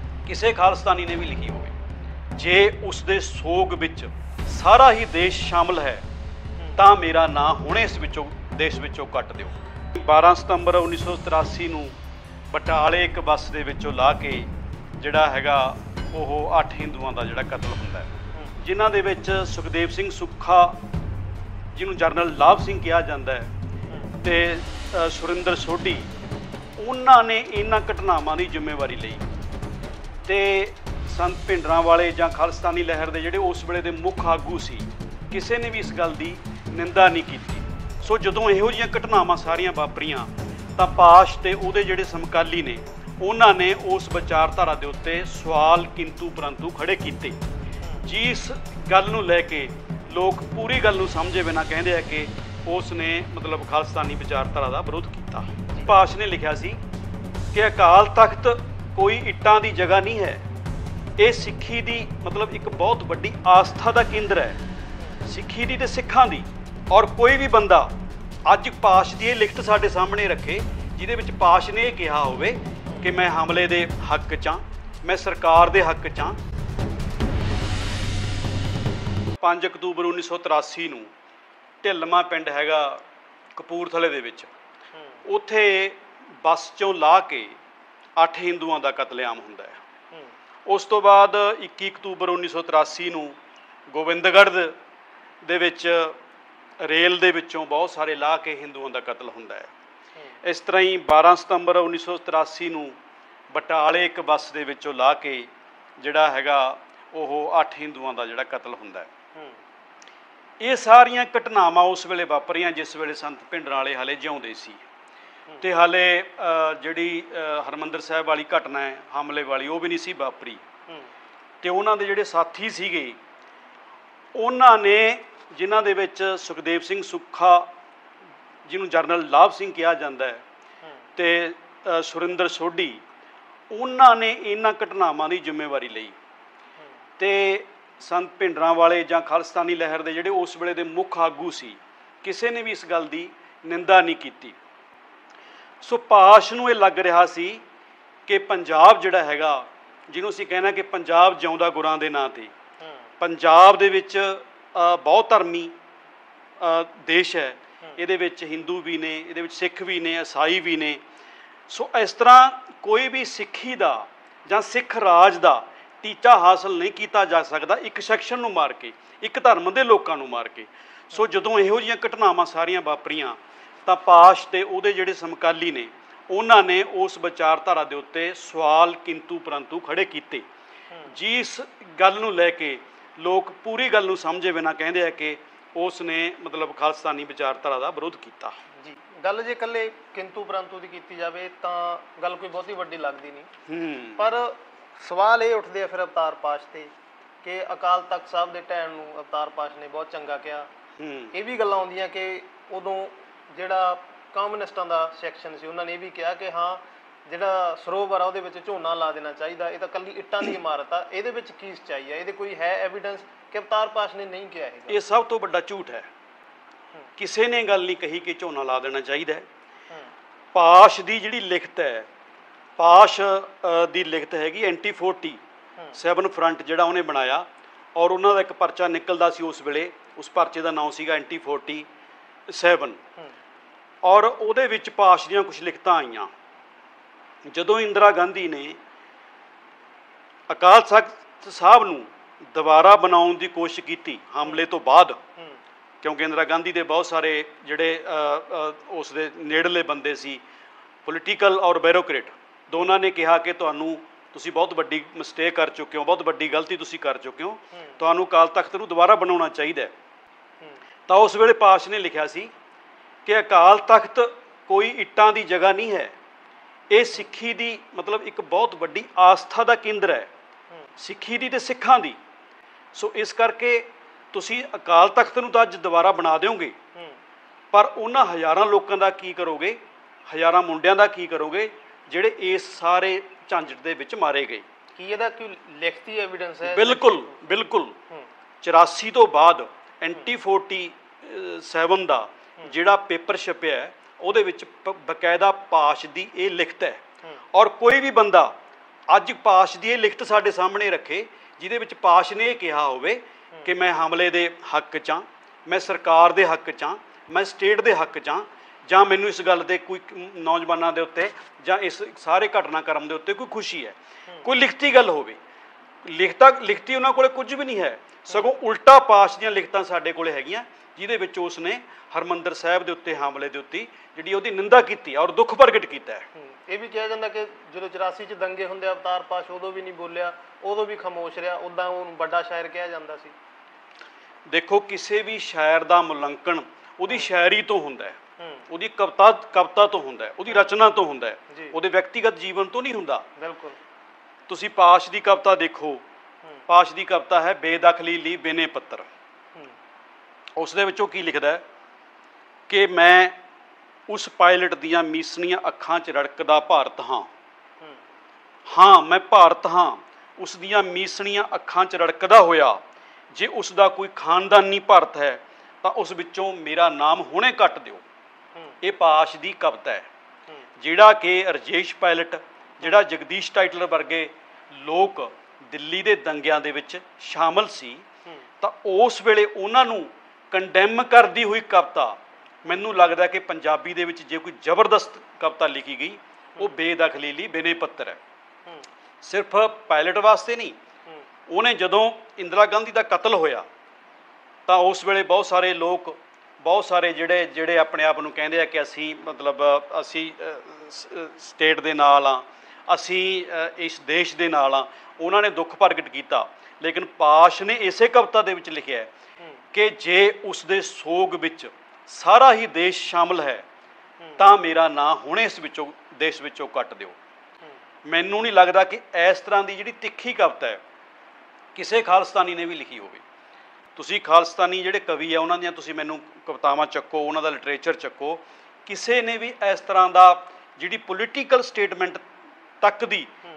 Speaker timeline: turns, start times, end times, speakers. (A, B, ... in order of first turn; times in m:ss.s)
0:00.2-0:01.8 A
0:02.3-0:06.0 A
0:06.8-0:11.9 A
0:12.5-0:20.8 A
0:21.7-0:23.5 A
0:24.2-0:26.1 A
0:26.8-0:29.2 A
0:30.2-0:47.4 A
0:48.0-0:56.8 A
0:57.5-1:00.4 A
1:01.2-1:04.6 A
1:05.3-1:07.9 A
1:08.5-1:16.4 A
1:19.4-1:21.1 A
1:21.8-1:23.0 A
1:23.6-1:24.5 A
1:25.0-1:25.2 B
1:25.2-1:27.6 A
1:28.2-1:29.8 A
1:30.7-1:33.4 A
1:33.9-1:34.8 A
1:35.4-1:36.2 A
1:36.8-1:39.7 A
1:40.4-1:43.0 A
1:43.5-1:49.1 A
1:50.6-1:54.8 A
1:55.6-2:00.6 A
2:01.6-2:03.2 A
2:04.4-2:07.7 A
2:08.7-2:10.4 A
2:11.2-2:13.0 A
2:13.7-2:16.2 A
2:17.2-2:24.6 A
2:25.8-2:27.6 A
2:28.3-2:32.5 A
2:33.2-2:35.7 A
2:36.6-2:41.0 A
2:41.7-3:00.4 A
3:01.1-3:08.6 A
3:08.8-3:13.5 B
3:13.7-3:14.3 A
3:14.2-3:16.9 B
3:17.4-3:20.7 B
3:21.0-3:21.3 A
3:21.3-3:35.0 B
3:34.9-3:36.1 A
3:37.2-3:39.5 A
3:40.5-3:42.1 A
3:42.8-3:45.4 A
3:45.9-3:51.9 A
3:52.5-3:53.0 A
3:54.0-3:56.3 A
3:57.5-3:58.8 A
4:00.5-4:05.2 A
4:06.0-4:10.4 A
4:11.0-4:19.9 A
4:21.1-4:22.5 A
4:23.2-4:26.1 A
4:26.9-4:30.3 A
4:31.0-4:32.2 A
4:32.9-4:36.8 A
4:37.7-4:44.6 A
4:45.0-4:47.3 B
4:46.6-4:48.0 A
4:48.6-4:57.0 A
4:57.5-4:58.5 A
4:59.1-5:15.4 A
5:16.0-5:26.3 A
5:26.4-5:33.4 B
5:34.5-5:38.2 A
5:38.4-5:38.6 B
5:38.7-5:43.3 A
5:43.4-5:43.8 B
5:44.5-5:46.0 A
5:46.7-5:49.1 A
5:50.6-5:51.6 A
5:52.7-5:53.4 A
5:54.1-5:57.3 A
5:58.7-6:02.8 A
6:03.3-6:08.0 A
6:08.8-6:10.1 A
6:10.8-6:18.0 A
6:18.6-6:28.2 A
6:29.2-6:30.8 A
6:31.5-6:33.6 A
6:34.7-6:49.1 A
6:49.7-6:53.6 A
6:54.4-6:57.2 A
6:58.1-7:00.8 A
7:01.8-7:03.2 A
7:04.0-7:12.2 A
7:12.8-7:13.3 A